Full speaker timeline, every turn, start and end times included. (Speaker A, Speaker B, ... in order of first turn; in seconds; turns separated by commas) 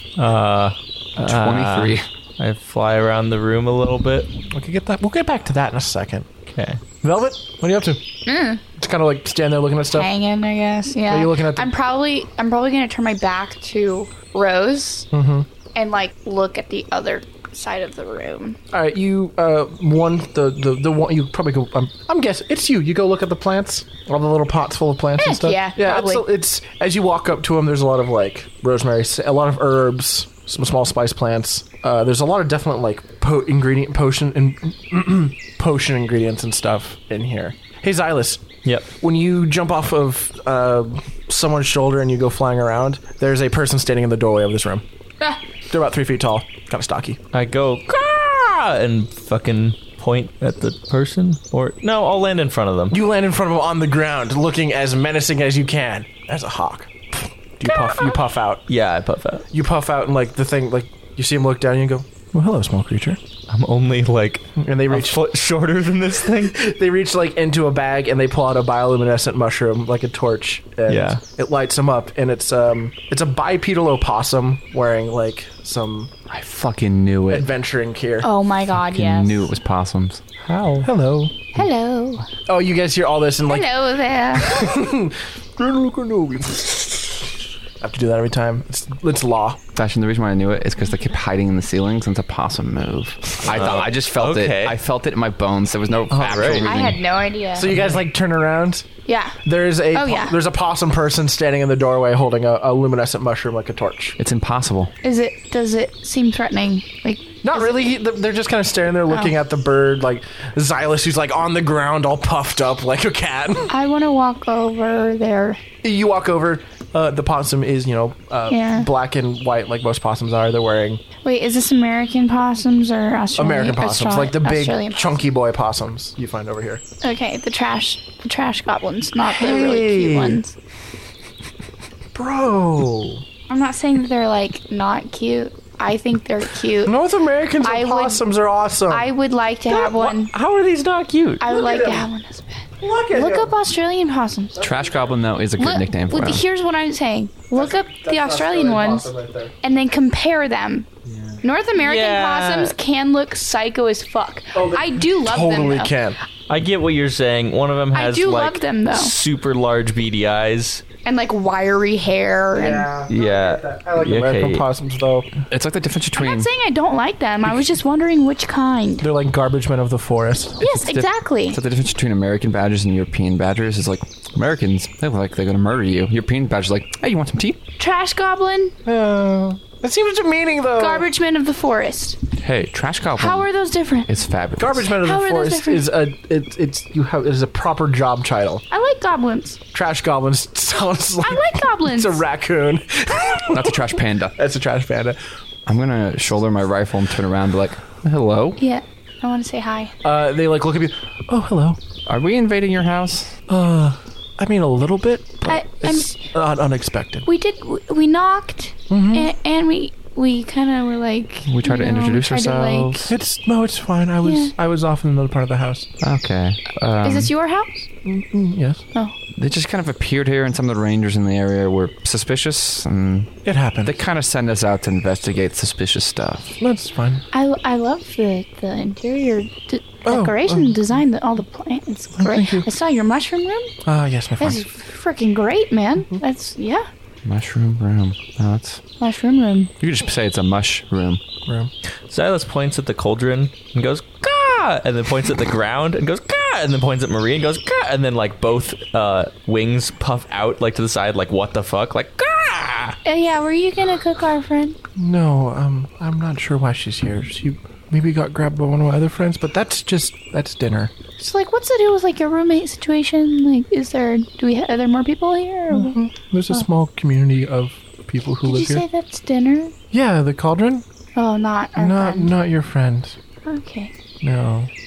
Speaker A: 0.2-4.3, Speaker B: 1.2-2.1, Speaker C: 4.5-6.3, Speaker A: 6.5-6.8, Speaker C: 7.0-8.0, Speaker D: 8.3-8.6, Speaker C: 8.8-10.1, Speaker D: 9.9-15.1, Speaker C: 11.1-11.7, Speaker C: 15.1-15.5, Speaker D: 15.8-18.6, Speaker C: 18.7-38.5, Speaker D: 25.2-26.3, Speaker C: 39.0-44.8, Speaker C: 45.7-47.2, Speaker A: 47.3-53.0, Speaker C: 52.9-58.7, Speaker A: 58.7-59.5, Speaker C: 59.5-63.2, Speaker A: 63.5-66.6, Speaker C: 64.6-65.2, Speaker C: 66.3-76.1, Speaker A: 70.9-71.2, Speaker B: 76.3-77.5, Speaker C: 77.3-78.3, Speaker D: 78.2-79.5, Speaker B: 78.8-80.2, Speaker A: 80.4-80.9, Speaker C: 80.8-81.5, Speaker D: 81.5-82.3, Speaker C: 82.5-83.7, Speaker D: 83.5-84.7, Speaker C: 84.3-89.6, Speaker B: 89.8-97.0, Speaker A: 93.5-94.8, Speaker C: 96.1-96.7, Speaker A: 96.2-96.7, Speaker D: 96.5-97.7, Speaker C: 97.5-98.9, Speaker D: 99.1-99.4, Speaker C: 99.5-104.2, Speaker D: 99.9-100.4, Speaker B: 104.2-104.9, Speaker D: 105.0-107.6, Speaker C: 107.4-113.7, Speaker D: 113.7-115.6, Speaker C: 115.8-121.0, Speaker D: 118.5-118.9, Speaker D: 121.2-125.2, Speaker C: 123.4-126.8, Speaker D: 127.0-130.5, Speaker C: 129.2-130.4, Speaker C: 132.1-133.2, Speaker D: 133.5-137.0, Speaker C: 136.8-139.1, Speaker D: 137.6-138.2, Speaker D: 138.9-140.3, Speaker A: 139.7-141.5, Speaker D: 141.4-144.6, Speaker C: 141.5-142.1, Speaker C: 142.8-143.5, Speaker C: 144.6-145.2, Speaker B: 144.6-146.4, Speaker D: 145.6-149.1, Speaker C: 147.5-149.5, Speaker D: 149.6-150.9, Speaker C: 151.1-151.4, Speaker D: 151.4-155.9, Speaker A: 151.8-152.8, Speaker C: 154.6-156.2, Speaker A: 156.5-160.8, Speaker D: 157.9-159.1, Speaker D: 161.1-162.9, Speaker C: 162.5-165.3, Speaker A: 163.1-164.7, Speaker B: 165.5-166.5, Speaker D: 166.2-169.1, Speaker C: 169.0-170.6, Speaker D: 170.6-171.6, Speaker B: 170.6-177.6, Speaker D: 177.8-178.8, Speaker C: 178.8-181.1, Speaker D: 180.8-182.2, Speaker B: 182.4-183.5, Speaker D: 183.2-184.1, Speaker B: 184.1-184.9, Speaker C: 184.6-188.6, Speaker D: 184.9-185.8, Speaker D: 188.7-189.6, Speaker C: 189.7-195.2, Speaker D: 191.2-192.2, Speaker B: 193.5-194.3, Speaker B: 195.7-198.6, Speaker D: 198.6-199.9, Speaker C: 200.0-201.8, Speaker B: 202.1-203.4, Speaker C: 203.5-207.3, Speaker D: 205.4-206.2, Speaker D: 207.3-213.1, Speaker C: 208.9-209.3, Speaker B: 211.5-213.1, Speaker C: 213.1-215.9, Speaker D: 214.2-214.5, Speaker B: 216.0-217.3, Speaker D: 217.0-217.9, Speaker C: 218.1-218.8, Speaker B: 219.4-223.3, Speaker C: 223.4-223.9, Speaker B: 223.8-226.6, Speaker C: 226.6-227.2, Speaker D: 227.3-233.7, Speaker C: 230.1-230.8, Speaker C: 232.2-232.7, Speaker C: 233.8-234.7, Speaker D: 234.4-236.9, Speaker B: 237.2-238.8, Speaker D: 239.0-239.7, Speaker B: 239.8-241.2, Speaker C: 241.4-241.7, Speaker A: 242.1-253.0, Speaker D: 253.1-254.8, Speaker C: 255.0-260.9, Speaker D: 261.2-266.0, Speaker C: 265.7-268.8, Speaker D: 268.4-269.7, Speaker C: 269.9-270.9, Speaker D: 271.1-272.3, Speaker C: 271.8-273.2, Speaker D: 273.4-273.9, Speaker C: 274.2-274.7